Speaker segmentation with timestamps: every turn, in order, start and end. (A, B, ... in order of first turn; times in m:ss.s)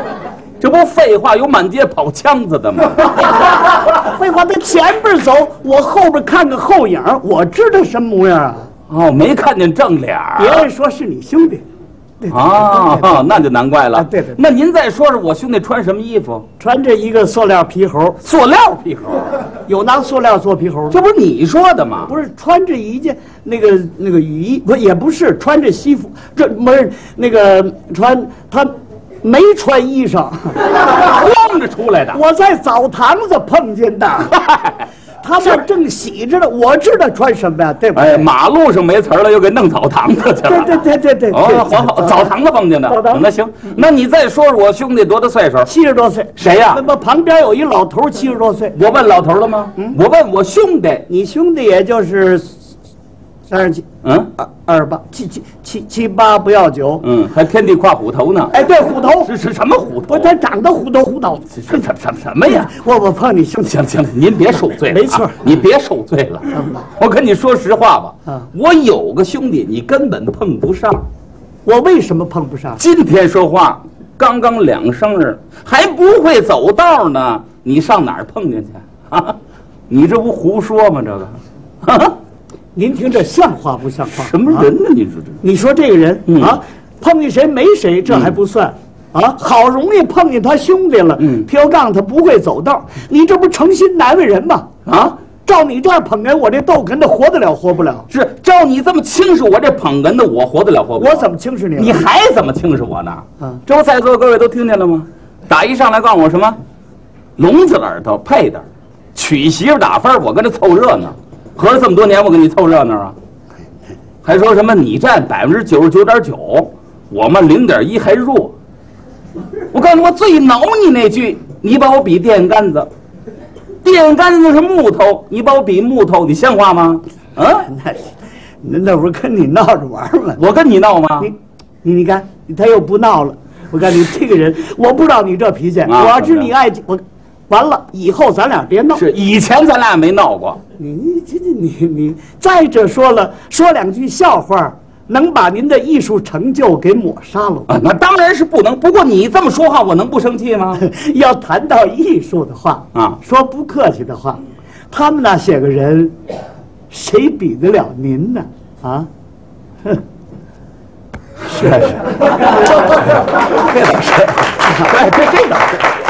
0:00.6-0:03.4 A
0:03.8-0:08.7 B
0:08.9-0:10.7 A
0:10.4-0:11.6 B
0:12.2-0:14.4 B
0:12.3-0:16.4 A
0:16.6-0:18.2 B
0:18.2-0:19.3 A
0:19.7-0:21.0 B
0:20.9-0:22.1 A
0:22.1-0:30.7 B
0:30.9-0:32.2 A
0:32.1-0:34.5 B
0:34.4-0:34.7 A
0:35.2-0:38.3 B
0:37.9-0:45.7 A
0:40.4-0:42.3 B
0:42.9-0:43.3 B
0:45.6-0:48.8 B
0:46.4-0:46.8 A
0:48.7-0:51.0 A
0:51.1-0:52.6 B
0:53.5-0:53.8 B
0:54.0-0:54.3 A
0:54.4-0:57.0 B
0:57.0-1:00.3 A
0:58.5-0:59.3 B
1:00.1-1:01.9 B
1:01.6-1:02.7 A
1:02.5-1:03.9 B
1:03.6-1:11.0 A
1:04.8-1:05.5 B
1:06.5-1:06.8 B
1:11.6-1:12.8 B
1:12.8-1:19.4 A
1:19.9-1:22.2 A
1:22.8-1:24.7 B
1:24.1-1:25.4 A
1:25.4-1:34.7 B
1:26.3-1:26.6 A
1:28.1-1:28.3 A
1:31.2-1:31.5 A
1:34.8-1:35.2 A
1:35.4-1:38.1 B
1:38.1-1:46.6 A
1:41.0-1:42.0 B
1:47.4-1:53.1 A
1:54.2-1:58.5 A
1:59.7-2:02.9 A
2:03.8-2:07.7 A
2:07.7-2:10.4 B
2:10.4-2:11.3 A
2:11.2-2:19.0 B
2:15.9-2:16.5 A
2:19.0-2:20.6 A
2:20.8-2:27.7 B
2:27.7-2:30.8 A
2:30.8-2:36.1 B
2:32.9-2:33.2 A
2:36.9-2:39.1 B
2:41.5-2:42.6 A
2:43.5-2:45.8 A
2:44.7-2:44.9 B